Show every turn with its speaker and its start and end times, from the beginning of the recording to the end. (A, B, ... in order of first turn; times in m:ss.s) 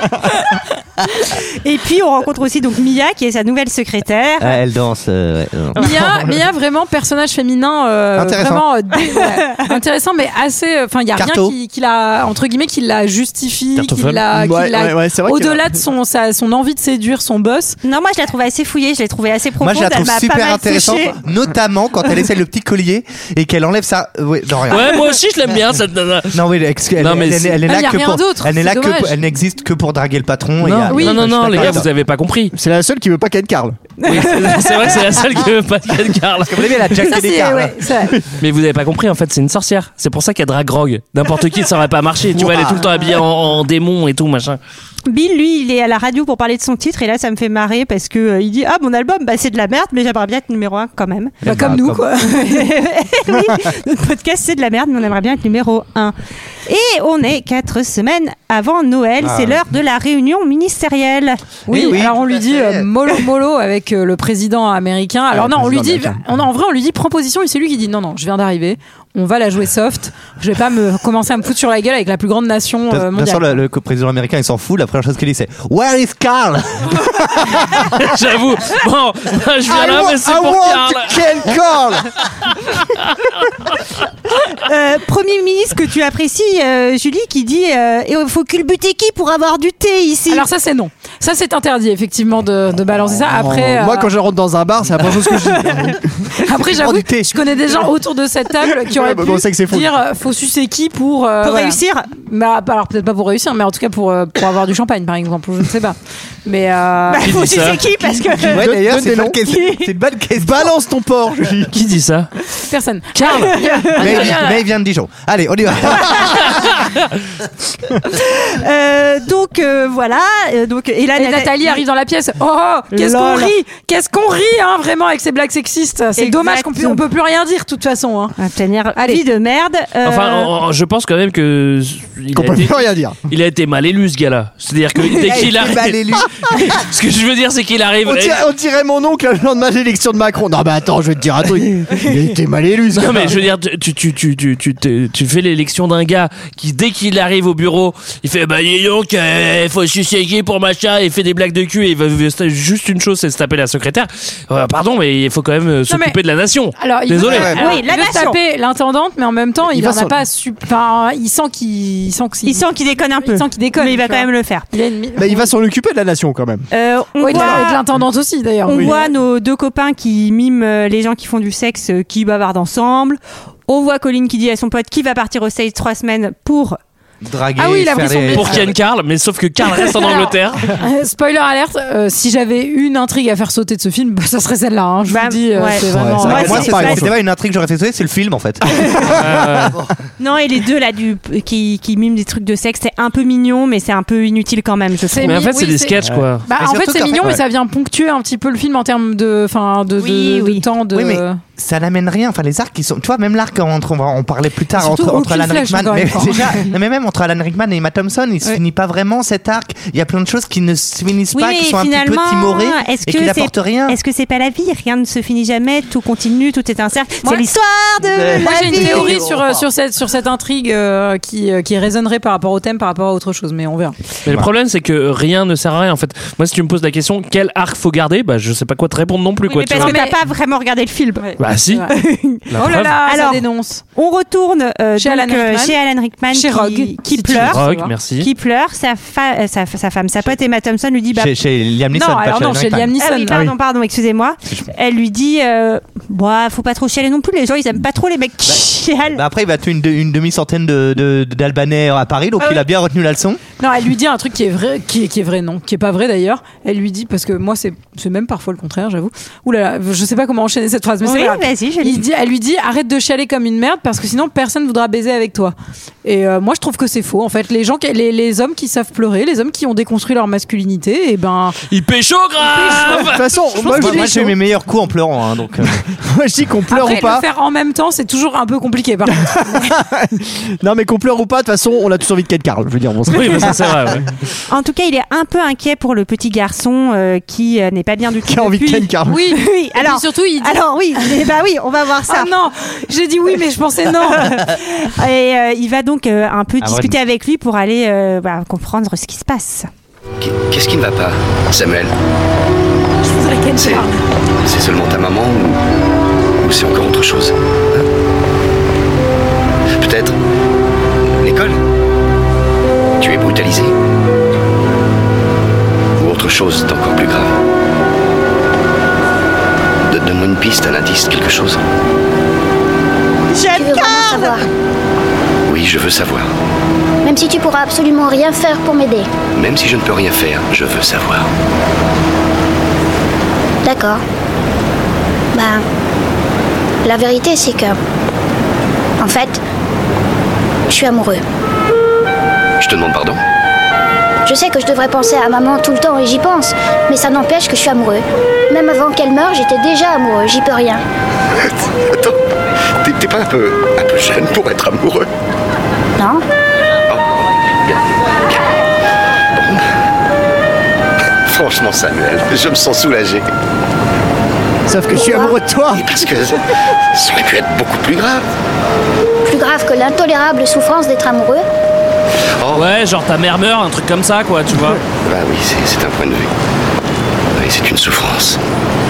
0:01.6-0:04.6 A
0:04.4-0:06.4 B
0:05.8-0:17.8 C
0:08.1-0:08.6 B
0:11.1-0:11.5 B
0:13.7-0:14.2 D
0:14.3-0:15.8 E
0:17.8-0:21.2 A
0:19.6-0:25.0 B
0:24.7-0:26.4 D
0:26.3-0:31.9 B
0:27.0-0:27.6 D
0:27.6-0:29.2 C
0:30.6-0:32.5 D
0:30.9-0:31.3 C
0:32.5-0:33.9 E
0:34.0-0:37.1 D
0:36.4-0:37.8 B
0:37.0-0:38.1 C
0:38.4-0:44.6 D
0:42.4-0:42.8 E
0:45.0-0:51.4 A
0:51.4-0:52.0 B
0:51.4-0:52.7 C
0:52.3-0:56.1 A
0:56.7-1:01.4 A
0:59.2-0:59.6 B
1:01.7-1:02.9 B
1:01.7-1:13.6 C
1:05.3-1:06.2 E
1:12.9-1:17.5 B
1:17.9-1:21.2 D
1:19.7-1:22.1 E
1:24.5-1:30.4 A
1:30.3-1:34.1 C
1:33.1-1:36.2 E
1:36.4-1:47.4 C
1:36.8-1:37.2 E
1:38.9-1:39.9 E
1:41.4-1:42.1 A
1:47.1-1:48.7 A
1:47.2-1:47.8 D
1:48.4-1:50.8 B
1:48.4-1:49.4 E
1:49.4-1:49.9 A
1:50.4-1:51.7 E
1:51.7-1:52.3 D
1:52.6-1:54.6 C
1:53.2-1:53.5 D
1:53.5-1:54.0 A
1:54.0-1:56.6 B
1:58.0-2:01.8 A
2:01.2-2:08.4 C
2:02.9-2:03.5 A
2:06.2-2:07.0 A
2:08.4-2:10.5 A
2:09.0-2:09.2 C
2:10.0-2:18.4 D
2:12.3-2:13.2 E
2:15.1-2:16.6 B
2:18.0-2:23.4 E
2:22.9-2:37.6 D
2:35.9-2:36.2 C
2:36.8-2:42.6 C
2:37.2-2:37.6 B
2:37.5-2:38.4 A
2:39.7-2:40.2 E
2:42.4-2:44.6 A
2:43.2-2:45.5 C
2:45.2-2:46.7 E
2:46.7-2:47.8 A
2:47.2-2:49.1 C
2:48.6-2:56.8 A
2:57.2-2:58.7 B
2:57.6-2:58.7 C
2:58.3-3:00.7 D
2:59.6-3:06.7 C
3:05.1-3:07.0 A
3:05.8-3:07.1 E
3:06.2-3:09.9 B
3:09.2-3:09.8 D
3:10.2-3:15.5 A
3:15.1-3:21.4 C
3:15.2-3:16.4 D
3:16.5-3:17.4 B
3:20.0-3:20.6 A
3:20.9-3:34.0 B
3:24.8-3:26.7 C
3:31.3-3:39.3 A
3:38.0-3:39.6 B
3:38.3-3:44.0 C
3:44.2-3:50.0 D
3:49.4-3:51.3 A
3:49.7-3:50.2 C
3:51.2-3:51.9 C
3:51.4-3:51.8 D
3:51.9-3:53.4 A
3:52.5-3:53.0 D
3:52.6-3:53.8 C
3:53.9-3:57.6 A
3:55.0-3:55.8 C
3:56.3-3:57.9 C
3:57.4-3:58.3 D
3:58.2-4:01.3 A
4:01.1-4:02.9 B
4:01.9-4:03.4 C
4:03.0-4:09.2 A
4:09.1-4:13.4 B
4:13.6-4:31.6 C
4:21.0-4:22.0 A
4:31.7-4:33.3 D
4:32.5-4:33.1 C
4:33.0-4:34.3 E
4:33.7-4:35.8 B
4:33.8-4:34.1 C
4:36.0-4:37.2 E
4:36.7-4:39.7 C
4:39.2-4:43.8 E
4:43.1-4:44.0 D
4:44.5-4:52.3 A
4:48.2-4:49.2 E
4:49.1-4:51.3 C
4:52.1-4:54.5 C
4:54.0-4:59.7 A
4:56.6-4:57.0 B
5:00.2-5:01.9 F
5:03.0-5:04.0 C
5:03.6-5:03.9 F
5:04.4-5:05.6 F
5:06.4-5:07.8 F
5:09.8-5:10.2 F
5:11.1-5:11.6 F
5:13.0-5:13.7 F
5:16.0-5:17.3 F
5:19.9-5:21.6 F
5:23.3-5:24.4 A
5:23.5-5:24.4 G
5:25.4-5:26.3 F
5:27.0-5:29.1 G
5:29.3-5:31.3 F
5:33.6-5:34.0 G
5:35.3-5:35.6 G
5:36.8-5:37.8 G
5:39.0-5:39.4 G
5:40.7-5:41.2 G
5:42.6-5:43.2 F
5:44.2-5:50.8 G
5:52.8-5:55.1 F
5:56.0-5:56.2 G
5:57.6-5:58.4 F
5:59.3-5:59.7 F
6:01.2-6:03.2 F
6:04.7-6:05.9 E
6:04.9-6:05.3 G
6:05.7-6:08.2 F
6:09.2-6:11.4 G
6:12.4-6:12.7 F
6:12.5-6:14.8 D
6:15.0-6:16.3 F
6:17.3-6:18.4 F